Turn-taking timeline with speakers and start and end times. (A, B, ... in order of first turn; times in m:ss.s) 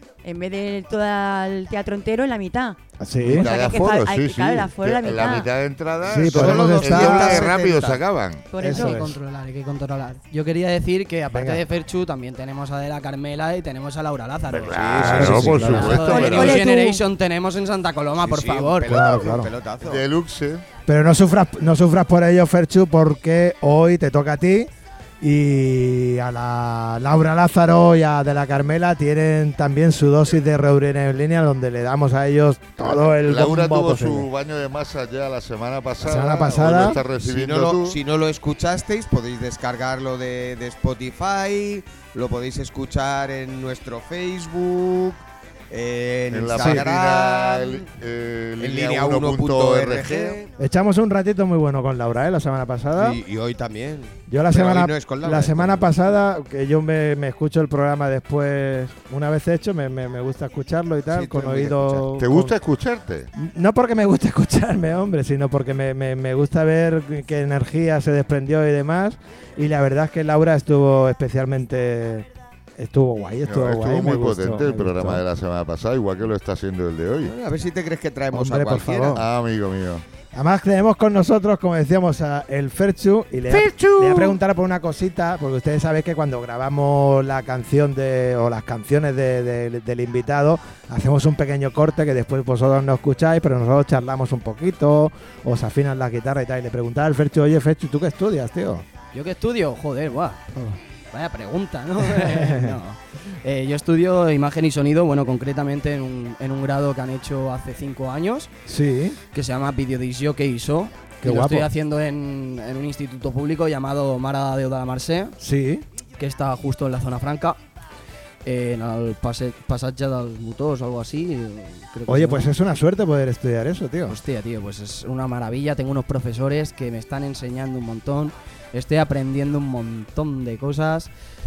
0:00.2-0:05.5 A
0:03.0-0:03.5 B
0:03.3-0:08.5 C
0:06.0-0:07.5 B
0:06.2-0:08.0 D
0:08.5-0:09.0 A
0:08.6-0:09.2 B
0:08.6-0:19.1 E
0:11.3-0:11.6 B
0:14.5-0:16.6 C
0:14.7-0:15.8 D
0:15.0-0:16.0 B
0:15.8-0:17.0 A
0:18.2-0:20.0 D
0:18.8-0:19.5 B
0:19.8-0:20.6 C
0:20.9-0:34.3 B
0:32.8-0:38.0 C
0:36.0-0:37.0 B
0:36.6-0:47.9 D
0:46.3-0:50.4 C
0:46.6-0:46.8 B
0:48.6-0:50.5 D
0:50.6-0:53.2 B
0:52.9-0:55.9 D
0:54.3-1:02.6 B
1:01.1-1:02.1 D
1:02.2-1:03.3 C
1:03.4-1:15.2 B
1:13.4-1:17.3 C
1:17.2-1:19.2 D
1:18.3-1:19.2 B
1:19.1-1:20.0 C
1:20.3-1:38.8 B
1:39.1-1:40.4 E
1:41.1-1:48.5 E
1:42.0-1:42.8 B
1:48.6-1:49.2 B
1:49.3-1:55.4 E
1:51.2-1:51.7 B
1:55.4-1:55.8 B
1:56.2-1:57.6 E
1:58.4-2:02.5 E
2:02.1-2:04.2 B
2:04.1-2:11.1 E